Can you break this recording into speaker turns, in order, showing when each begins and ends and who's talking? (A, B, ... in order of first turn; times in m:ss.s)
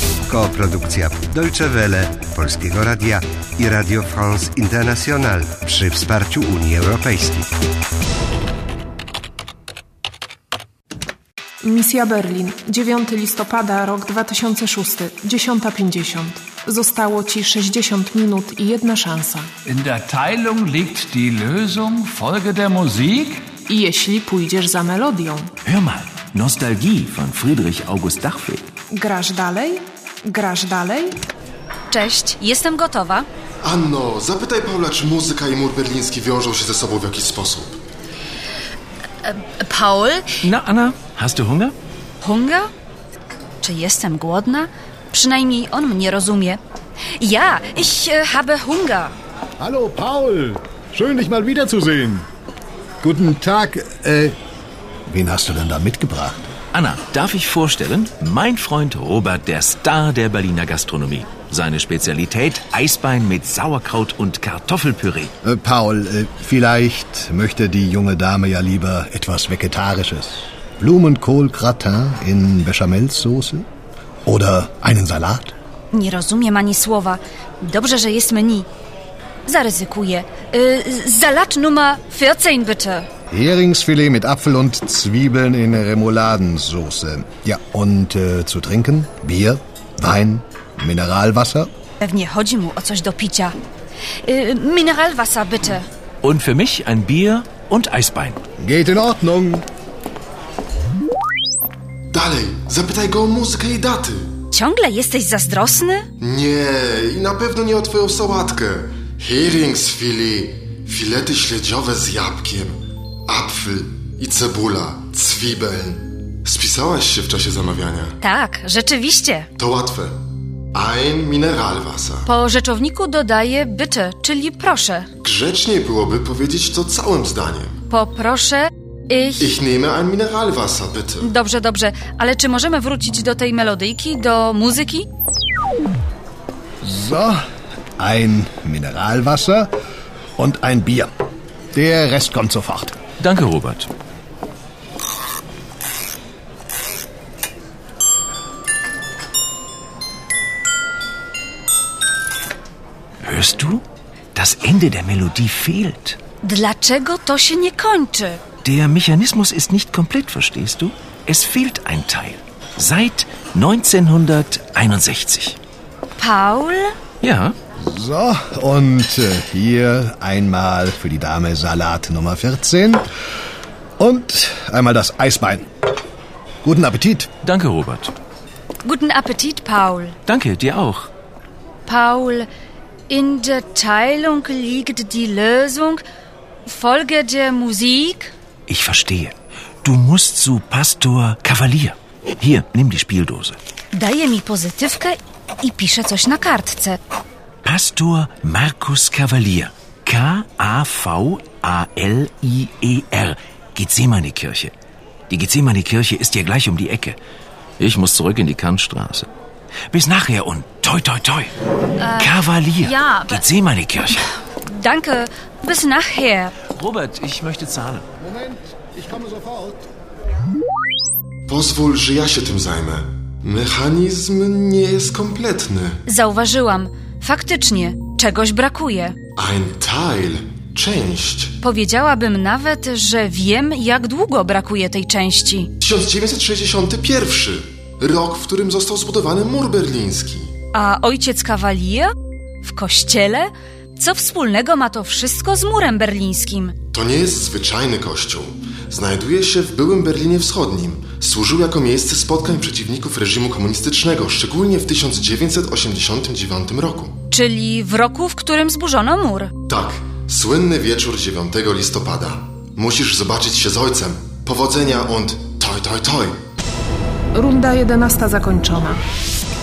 0:00.3-0:07.5 A
0:11.6-0:19.5 B
0:19.6-0:23.5 C
0:23.7-0:25.5 B
0:25.6-0:28.7 D
0:28.9-0:31.2 B
0:31.9-0:33.3 E
0:33.6-0:37.8 F
0:39.2-0:40.3 E
0:40.4-0:41.8 D
0:42.2-0:42.7 E
0:43.6-0:46.6 E
0:47.2-0:49.2 E
0:49.6-0:52.3 G
0:53.0-0:54.4 G
0:55.1-0:56.5 G
0:56.7-1:05.3 D
1:05.4-1:13.6 G
1:14.3-1:15.5 G
1:15.9-1:18.7 E
1:19.5-1:23.1 E
1:23.3-1:31.7 G
1:32.0-1:33.6 E
1:34.2-1:35.9 E
1:36.2-1:38.4 D
1:38.6-1:39.6 G
1:42.1-1:44.3 F
1:44.5-1:46.1 E
1:46.2-1:52.8 F
1:53.3-1:58.2 F
1:58.2-1:59.5 E
1:59.6-2:00.2 F
2:00.7-2:02.3 F
2:02.3-2:05.1 E
2:05.2-2:07.8 F
2:07.9-2:09.5 E
2:09.4-2:11.3 F
2:11.2-2:15.1 E
2:16.8-2:17.4 G
2:18.0-2:19.7 G
2:20.4-2:21.1 G
2:21.7-2:23.0 G
2:23.2-2:23.9 D
2:33.2-2:33.8 D
2:34.4-2:36.2 D
2:36.4-2:38.4 E
2:38.6-2:45.6 D
2:46.2-2:46.9 E
2:47.2-2:47.6 D
2:47.8-2:53.1 G
2:54.0-2:55.7 G
2:56.6-2:57.3 G
2:57.4-2:58.1 D
2:58.8-3:00.2 E
3:00.3-3:01.1 D
3:01.9-3:02.5 E
3:03.1-3:06.0 E
3:06.7-3:08.3 E
3:08.7-3:13.6 D
3:13.9-3:17.0 E
3:17.6-3:24.7 D
3:25.3-3:27.2 D
3:27.8-3:29.3 D
3:29.9-3:31.5 D
3:32.0-3:33.4 E
3:32.2-3:34.3 D
3:34.6-3:36.5 E
3:36.7-3:38.1 D
3:38.2-3:39.9 G
3:41.5-3:46.0 F
3:46.1-3:49.2 E
3:49.4-3:51.6 F
3:51.6-3:55.7 E
3:55.8-4:00.5 F
4:00.7-4:02.1 E
4:02.6-4:06.8 E
4:06.9-4:17.2 F
4:17.3-4:19.5 E
4:19.7-4:26.4 F
4:27.4-4:29.0 B